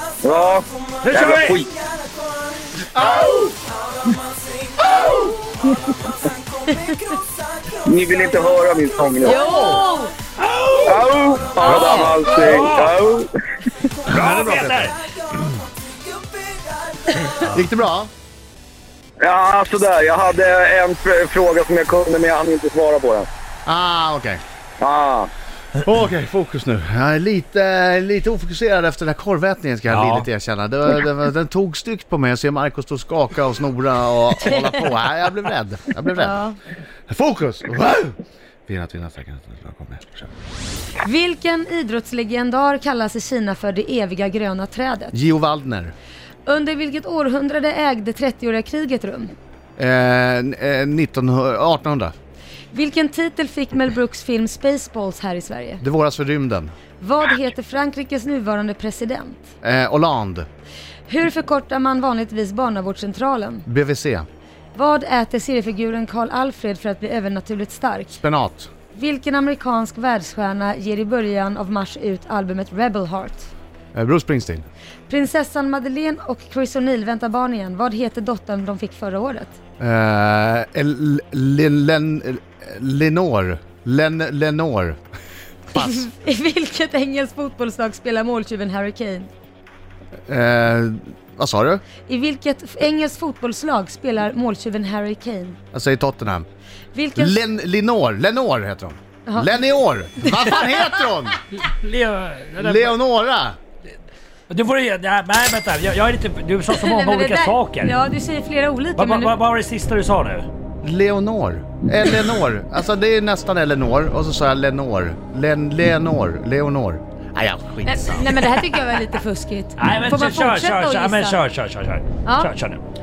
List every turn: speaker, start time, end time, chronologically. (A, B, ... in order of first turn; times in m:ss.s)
0:00.2-0:01.7 A
0:01.0-0:01.7 B
0:02.9-0:03.5 C
0:06.7-0:07.1 D
0:07.8-0:09.4 A
0:09.2-0:10.1 D
0:09.3-0:09.8 C
0:10.4-0:11.0 B
0:10.8-0:13.3 A
0:11.6-0:13.0 B
0:11.6-0:12.2 C
0:14.0-0:14.9 C
0:14.0-0:15.4 B
0:17.5-0:18.1 C
0:19.2-0:23.3 A
0:23.6-0:24.4 C
0:24.8-0:25.3 A
0:25.8-0:36.4 C
0:29.9-0:30.3 B
0:36.2-0:36.6 D
0:37.1-0:40.3 C
0:41.0-0:45.2 D
0:45.1-0:45.9 C
0:46.4-0:49.3 D
0:49.8-0:52.1 C
0:52.7-0:55.8 D
0:55.8-0:56.7 C
0:57.0-0:59.4 D
0:59.6-1:00.5 C
1:01.1-1:03.6 D
1:03.6-1:04.2 C
1:04.7-1:08.2 D
1:08.2-1:08.7 C
1:08.9-1:13.5 D
1:13.9-1:14.7 C
1:15.1-1:19.6 D
1:19.8-1:25.0 C
1:25.7-1:26.1 C
1:25.7-1:29.3 D
1:30.3-1:31.8 C
1:32.1-1:35.6 D
1:35.7-1:36.5 C
1:36.9-1:37.4 D
1:37.2-1:41.4 C
1:39.2-1:39.6 D
1:40.2-1:40.6 D
1:41.5-1:43.0 B
1:42.6-1:43.6 C
1:44.5-1:47.9 B
1:46.7-1:49.4 D
1:49.0-1:50.5 B
1:50.8-1:58.5 C
1:57.8-2:01.4 D
1:59.8-2:02.8 B
2:02.2-2:02.5 D